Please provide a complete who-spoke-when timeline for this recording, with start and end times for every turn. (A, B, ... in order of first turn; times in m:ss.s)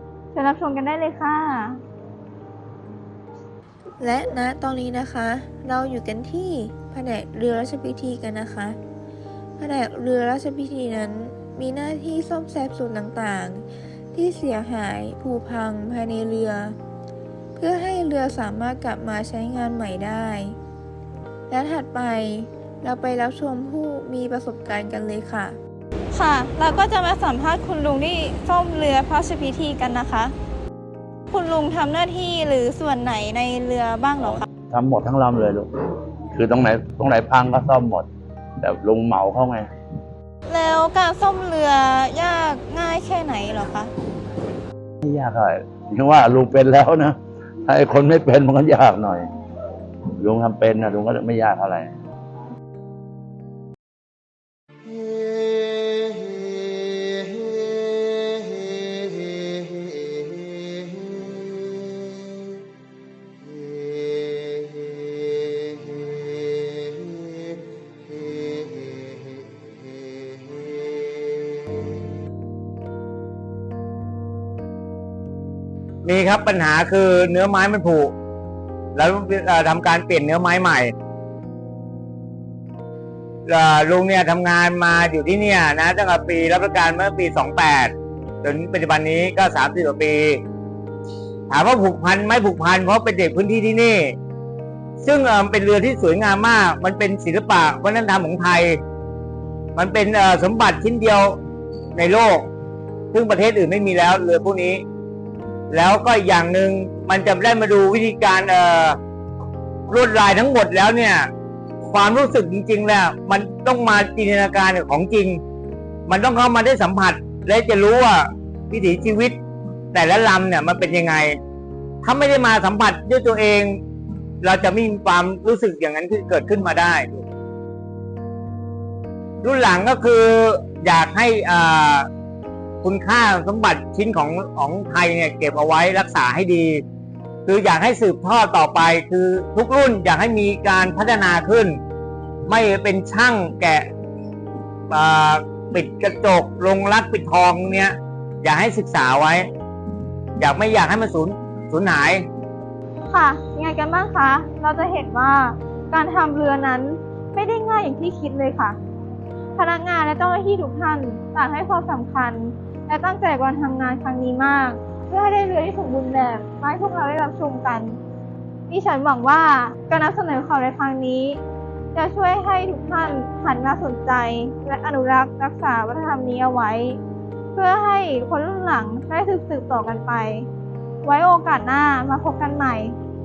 0:00.3-0:01.8 A
0:04.0-0:08.8 B
0:09.6-0:16.8 B
0:17.6-0:20.6 B
0:21.5-0:25.6 B
0:26.1-0:30.3 A
0:31.3-0:34.4 A
0:34.7-0:35.7 C
0:36.3-0:38.1 C
0:38.6-0:39.7 C
0:40.5-0:43.9 A
0:45.0-0:49.3 C
0:50.2-0:52.0 C
1:16.0-1:18.1 D
1:18.9-1:20.9 D
1:23.4-1:30.4 D
1:31.5-1:34.2 D
1:35.0-1:38.8 D
1:39.8-1:41.4 D
1:41.9-1:42.5 D
1:43.1-1:44.8 D
1:45.7-1:49.0 D
1:49.9-1:51.3 D
1:51.8-1:55.4 D
1:56.1-1:59.4 D
1:59.9-2:01.4 D
2:02.0-2:03.8 D
2:04.4-2:07.2 D
2:09.4-2:12.1 D
2:12.8-2:16.8 D
2:17.4-2:21.8 D
2:22.5-2:23.9 D
2:24.9-2:29.5 D
2:30.4-2:32.2 D
2:33.1-2:38.8 A
2:39.6-2:48.0 A
2:48.7-2:51.4 A
2:51.9-2:57.0 A
2:57.5-3:00.5 A
3:01.0-3:03.0 A